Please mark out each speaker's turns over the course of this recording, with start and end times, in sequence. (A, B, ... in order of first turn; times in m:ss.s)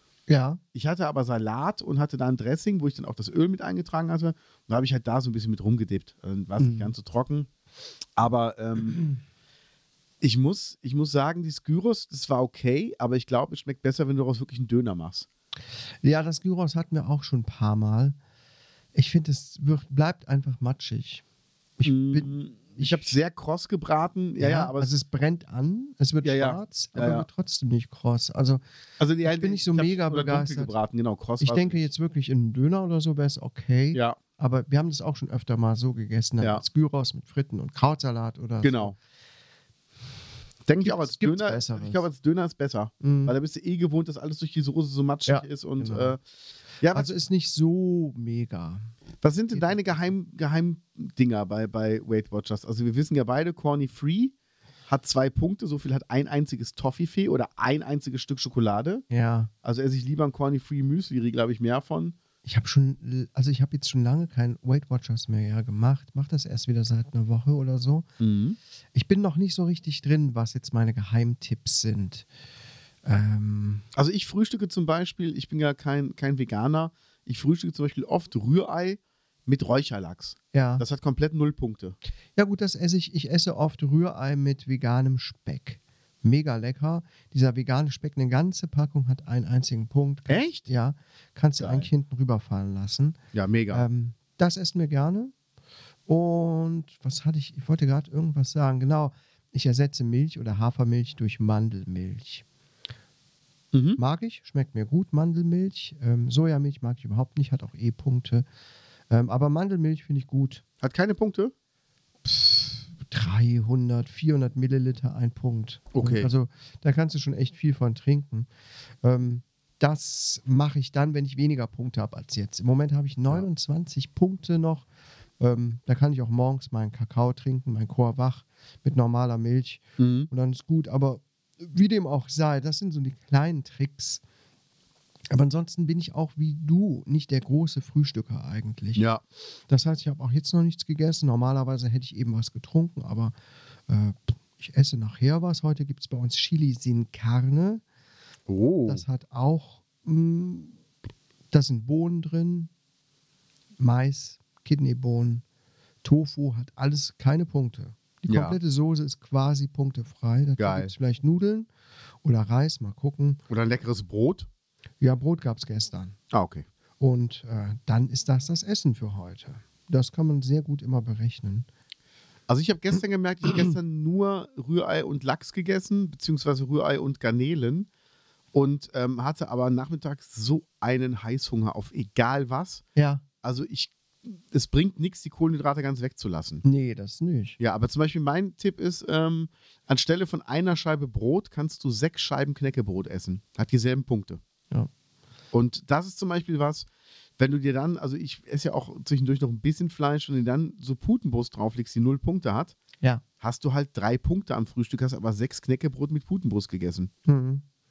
0:00.3-0:00.6 A
0:00.7-0:07.5 B
0:06.6-0:06.9 A
0:08.2-0:09.0 B
0:10.2-0:15.2 B
0:16.0-0:18.2 A
0:18.9-0:21.2 A
0:21.8-0:23.1 A
0:21.8-0:24.9 B
0:24.4-0:28.6 A
0:26.2-0:27.2 B
0:29.0-0:31.8 B
0:29.2-0:30.7 A
0:31.4-0:38.9 A
0:33.9-0:34.2 B
0:38.6-0:38.9 B
0:40.6-0:46.2 B
0:40.8-0:42.0 A
0:43.0-0:43.3 A
0:45.3-0:46.2 A
0:46.8-0:47.1 B
0:46.9-0:48.9 A
0:49.2-0:54.3 B
0:49.5-0:50.0 A
0:54.9-0:59.0 B
0:59.1-0:59.5 A
0:59.6-1:02.2 B
1:02.4-1:08.1 A
1:08.2-1:08.6 B
1:08.9-1:12.2 A
1:13.0-1:13.8 A
1:13.9-1:22.0 B
1:20.5-1:20.8 A
1:22.4-1:33.2 A
1:30.3-1:30.6 B
1:31.6-1:31.9 B
1:33.3-1:33.8 B
1:33.7-1:35.3 A
1:36.1-1:42.4 A
1:43.7-1:44.0 B
1:44.0-1:48.4 A
1:49.1-1:50.6 A
1:50.8-1:51.5 B
1:52.2-1:58.5 A
1:55.9-1:56.3 B
1:59.0-2:04.8 A
2:05.4-2:14.2 A
2:10.0-2:10.3 B
2:15.3-2:19.0 A
2:19.0-2:19.2 B
2:19.7-2:23.3 A
2:23.9-2:27.8 A
2:28.5-2:29.0 B
2:28.9-2:30.7 A
2:31.5-2:32.7 A
2:33.8-2:35.4 A
2:36.0-2:41.7 A
2:38.3-2:38.6 B
2:40.6-2:40.9 B
2:42.2-2:43.4 A
2:43.5-2:44.5 B
2:45.0-2:46.2 A
2:46.3-2:46.6 B
2:47.0-2:51.6 A
2:52.5-2:57.9 B
2:58.5-3:02.8 B
3:03.0-3:03.2 A
3:03.4-3:06.6 B
3:06.6-3:07.6 A
3:07.6-3:14.4 B
3:15.5-3:16.9 B
3:17.4-3:22.8 B
3:23.4-3:27.1 B
3:27.2-3:27.6 A